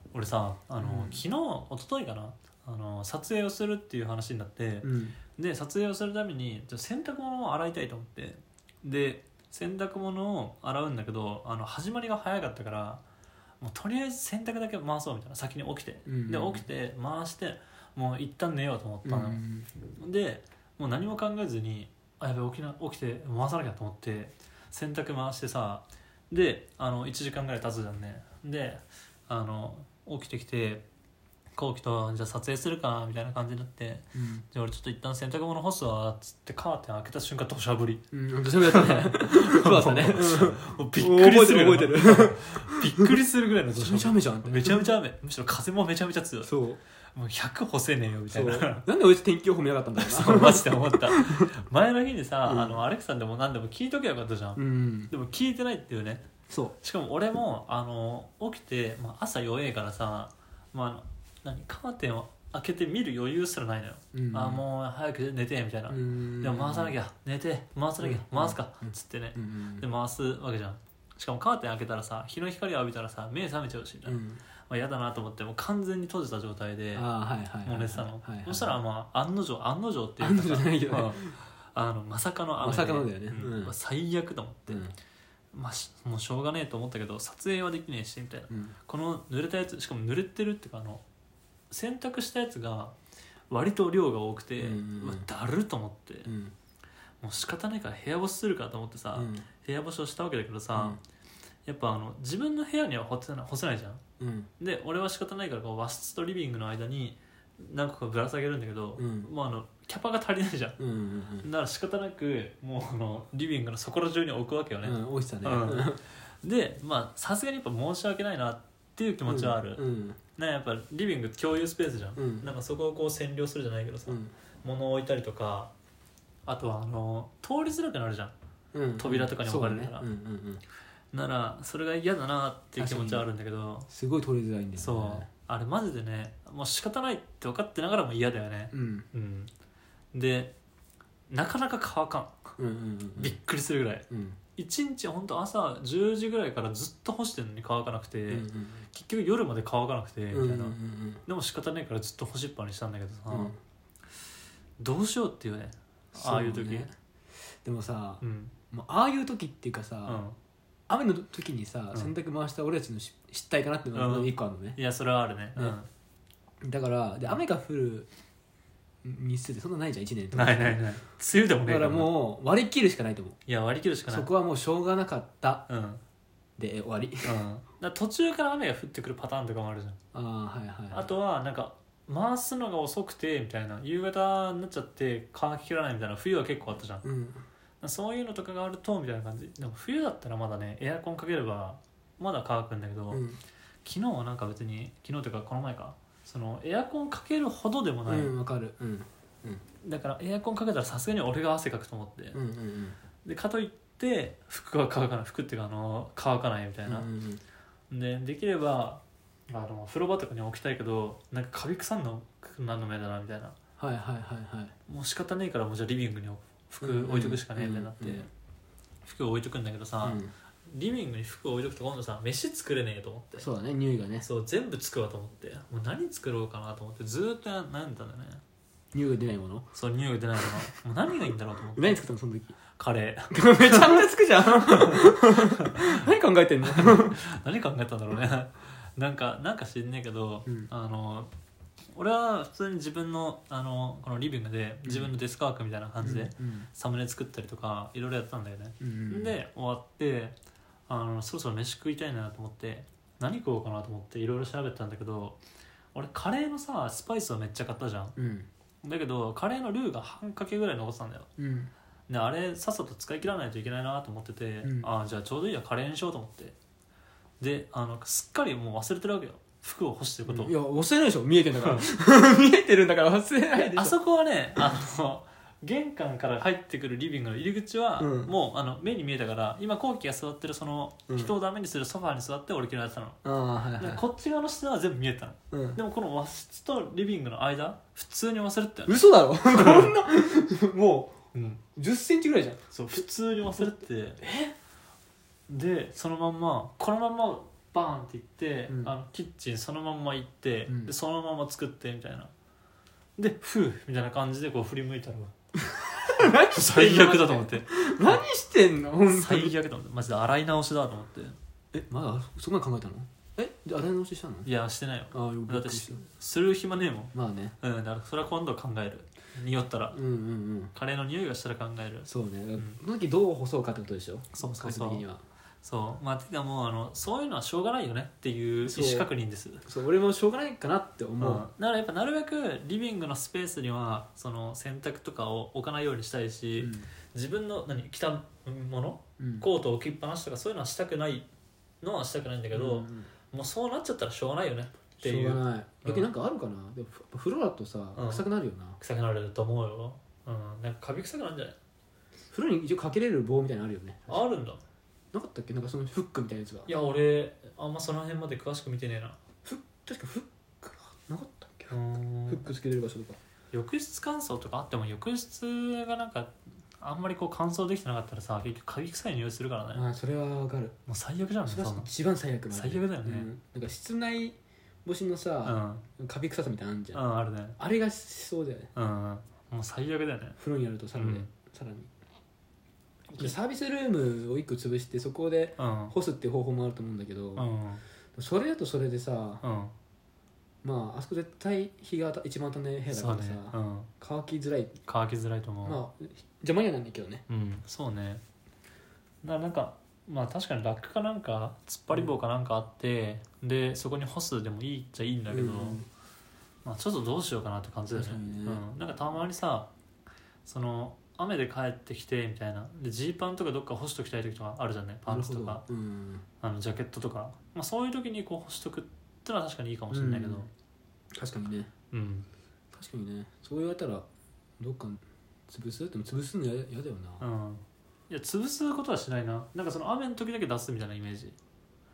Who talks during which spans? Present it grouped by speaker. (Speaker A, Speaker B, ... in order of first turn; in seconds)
Speaker A: 0.1-13.0, 13.6-30.9, 31.6-38.0, 38.6-46.5, 47.1-48.9, 50.0-56.2, 56.8-77.1, 77.6-84.9, 85.5-91.0, 91.7-93.0, 93.5-96.3, 97.2-101.0, 101.7-104.0, 104.6-110.8, 111.4-119.8, 120.4-125.7, 126.5-128.3, 129.0-130.1, 131.1-133.9, 134.8-139.5, 140.1-140.5, 141.3-142.5, 143.2-144.1, 144.6-153.5, 154.8-156.9, 158.2-158.5, 160.1-160.4, 163.9-165.9, 170.3-172.1, 173.5-174.3, 175.7-176.0, 177.2-180.0, 180.9-187.1, 187.8-193.2, 193.8-198.3, 199.8-202.4, 203.2-207.1, 207.9-213.6, 214.9-218.3, 219.0-223.5, 224.2-228.4, 229.7-232.0, 232.8-234.0, 234.6-236.0, 236.6-241.3, 241.9-250.4, 250.9-255.4, 255.9-258.1, 258.8-261.3, 262.1-266.6, 267.4-270.5, 273.6-290.0, 291.3-291.6, 292.7-294.2, 295.5-302.3, 303.2-305.3, 306.2-308.2, 309.1-311.4, 314.4-320.0, 320.8-322.8, 324.3-325.1, 325.6-329.7, 331.2-341.3, 341.8-346.1, 348.0-348.3, 348.8-351.6, 354.1-354.6, 356.7-359.2, 361.7-362.4, 363.5-369.9, 370.9-371.9, 372.5-373.3, 375.4-375.8, 376.9-377.6, 378.8-380.4, 381.0-381.3, 385.6-385.9, 387.4-387.8, 389.4-389.7, 392.9-393.9, 394.9-395.8, 397.3-398.2, 399.2-405.8, 406.6-409.7, 410.4-415.6, 416.4-420.5, 421.9-422.3, 427.2-431.4
Speaker B: 0.8-1.2, 4.8-5.2, 16.1-16.6, 19.1-19.7, 34.1-34.5, 38.1-43.1, 43.7-45.0, 46.5-46.8, 48.3-51.5, 52.5-52.8, 54.6-55.1, 56.5-56.8, 64.1-64.6, 65.9-67.0, 68.0-69.9, 74.0-74.4, 76.9-78.8, 80.2-81.4, 82.6-83.7, 84.7-85.0, 88.5-88.8, 94.6-95.3, 96.3-96.5, 99.2-99.5, 104.2-104.5, 109.0-109.3, 110.8-111.5, 114.8-116.0, 119.3-120.2, 122.2-122.5, 124.1-124.3, 128.7-130.6, 132.8-133.3, 133.9-135.3, 138.7-139.1, 142.6-143.4, 144.1-144.4, 148.3-148.9, 150.3-151.2, 153.3-153.6, 156.2-156.9, 157.6-160.2, 160.9-164.8, 166.6-168.1, 169.0-170.9, 171.7-173.4, 174.1-175.7, 176.6-177.4, 180.1-181.1, 187.0-187.4, 193.1-193.4, 198.1-199.6, 202.3-203.0, 206.9-207.4, 213.8-214.8, 216.8-218.2, 220.0-220.3, 223.4-224.3, 228.9-229.7, 231.8-232.6, 233.3-237.2, 244.8-245.1, 246.0-246.7, 248.8-249.4, 258.2-258.5, 261.4-261.7, 264.6-264.9, 270.3-274.0, 278.0-278.3, 283.2-284.0, 285.5-285.8, 288.9-291.2, 291.8-292.6, 294.2-294.5, 300.7-300.9, 305.6-309.6, 311.7-314.5, 315.1-316.0, 317.1-317.6, 319.9-320.7, 322.1-325.2, 328.6-329.1, 329.7-331.5, 336.6-336.9, 339.2-339.5, 342.5-343.1, 345.0-348.8, 352.3-354.2, 355.1-356.7, 359.4-363.2, 369.7-370.8, 371.4-377.0, 377.6-378.7, 380.4-381.9, 383.2-387.5, 388.1-389.4, 390.6-394.8, 395.6-397.2, 405.3-405.9, 407.9-408.7, 415.1-416.2, 419.9-420.5, 421.2-421.7, 422.7-424.1, 424.6-427.3